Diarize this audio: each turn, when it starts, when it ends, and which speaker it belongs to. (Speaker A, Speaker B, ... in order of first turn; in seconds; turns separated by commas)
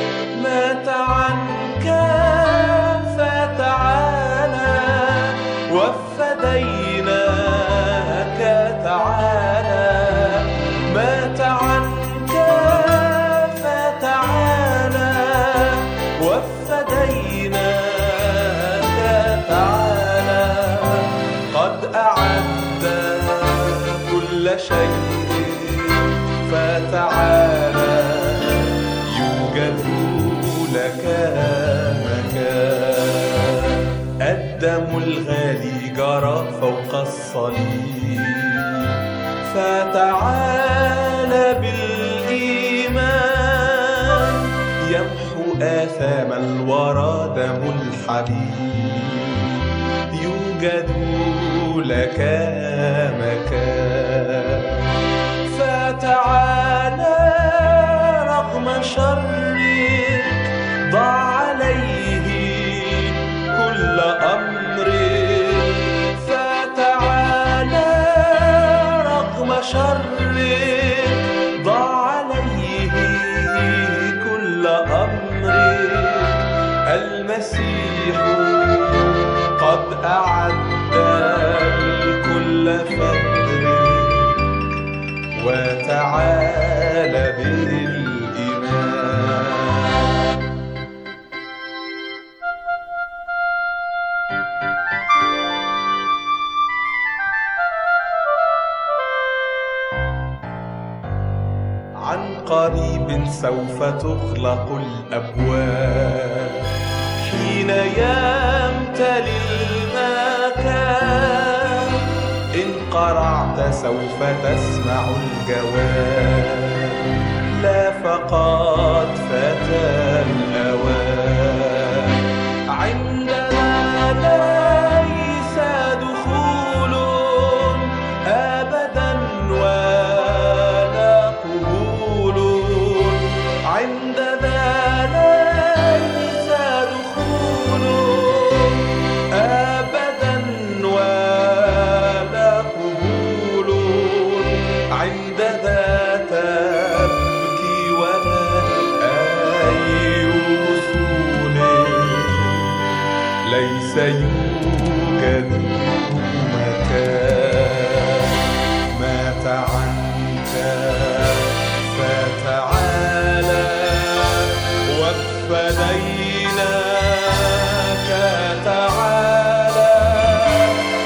Speaker A: 0.3-38.9, Speaker A: 39.5-49.6, Speaker A: 50.1-54.8, Speaker A: 55.5-84.4, Speaker A: 85.4-90.1, Speaker A: 102.0-106.6, Speaker A: 107.2-112.0, Speaker A: 112.5-117.0, Speaker A: 117.5-122.2, Speaker A: 122.7-152.8, Speaker A: 153.5-158.4, Speaker A: 158.9-170.8